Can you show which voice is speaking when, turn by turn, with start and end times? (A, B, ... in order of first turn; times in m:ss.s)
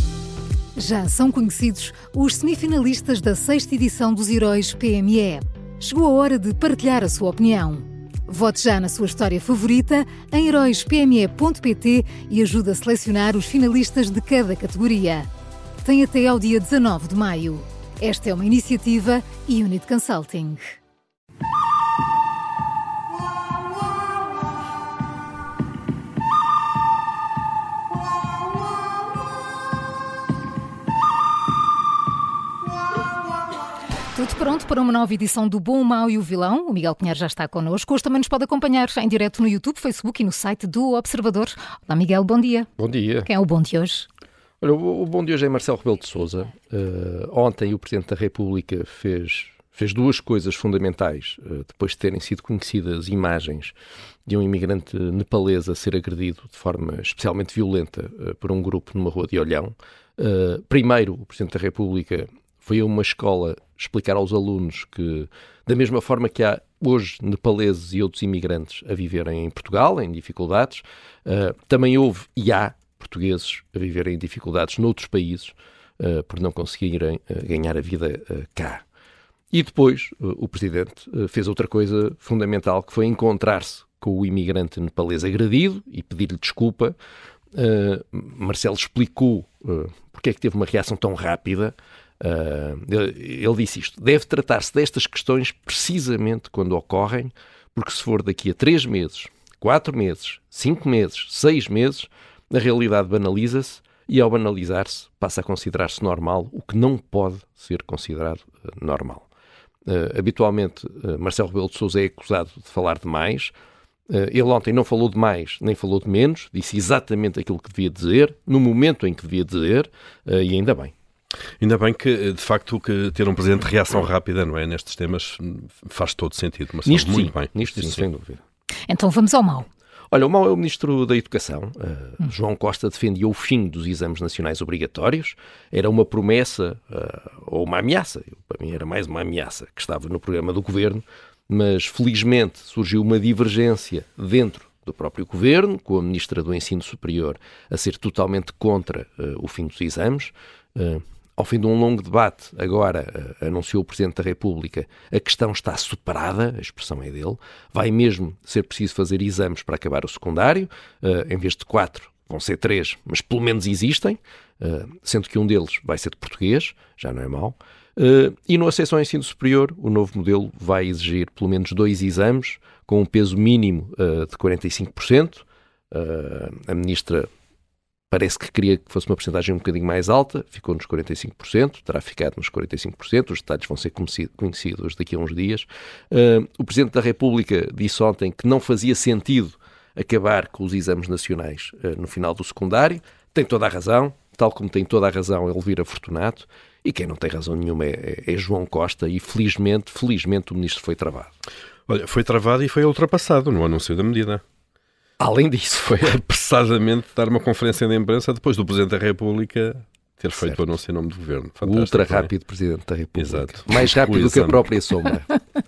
0:00.8-0:15.3 A
0:15.8-0:20.8 A
0:34.1-0:42.7 A
0:42.8-0:43.3 B
0:43.2-0:44.1 A
0:44.6-0:53.7 B
0:54.3-1:18.8 B
1:19.5-1:27.0 B
1:27.5-1:49.3 B
1:49.9-1:53.5 B
1:54.1-2:00.9 B
2:01.6-2:08.0 C
2:06.8-2:08.4 B
2:08.9-2:09.7 A
2:10.1-2:57.3 B
2:58.1-3:21.3 B
3:21.9-3:24.4 C
3:25.2-3:26.2 B
3:26.0-3:32.3 C
3:31.6-3:35.3 B
3:33.2-3:34.6 C